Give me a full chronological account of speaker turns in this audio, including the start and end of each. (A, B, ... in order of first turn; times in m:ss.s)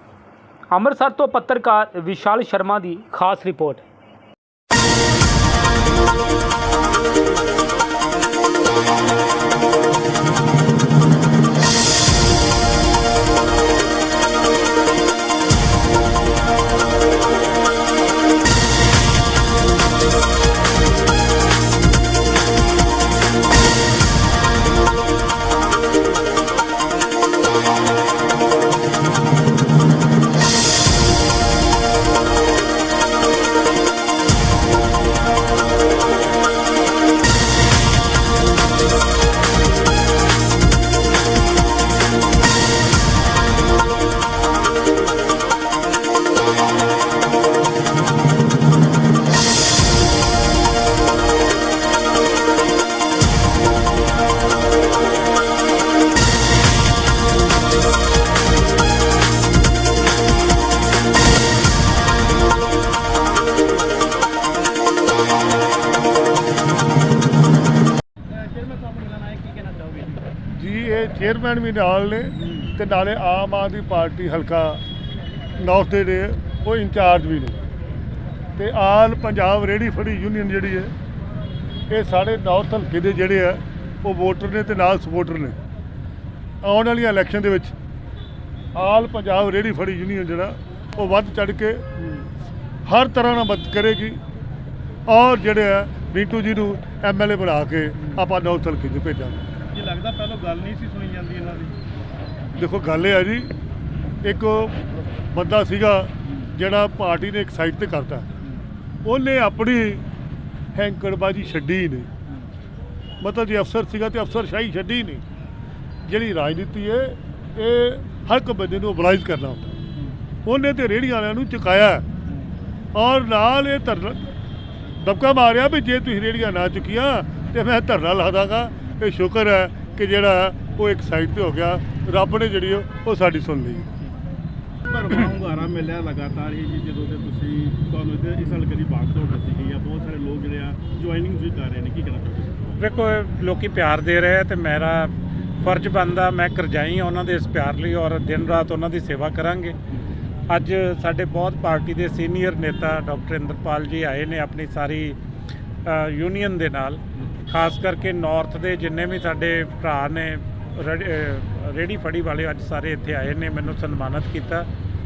0:00.7-0:03.8 A
1:08.3-1:10.3 B
1:10.5-1:14.8 C
1:12.4-1:12.7 B
1:15.6-1:17.6 C
1:18.6-1:20.9 C
1:21.9-1:25.6 C
1:26.6-1:27.7 C
1:28.7-1:31.8 C
1:32.9-1:34.2 C
1:35.1-1:39.4 C
1:39.7-1:41.7 B
1:42.6-1:43.5 C
1:44.2-1:44.8 C
1:45.3-1:48.3 C
1:49.0-1:50.0 C
1:50.7-1:52.1 C
1:53.2-1:55.2 C
1:56.0-1:59.8 C
2:00.4-2:02.0 C
2:02.9-2:04.3 C
2:05.0-2:13.9 C
2:14.8-2:22.8 B
2:22.8-2:29.8 D
2:30.5-2:35.2 D
2:35.8-2:44.7 D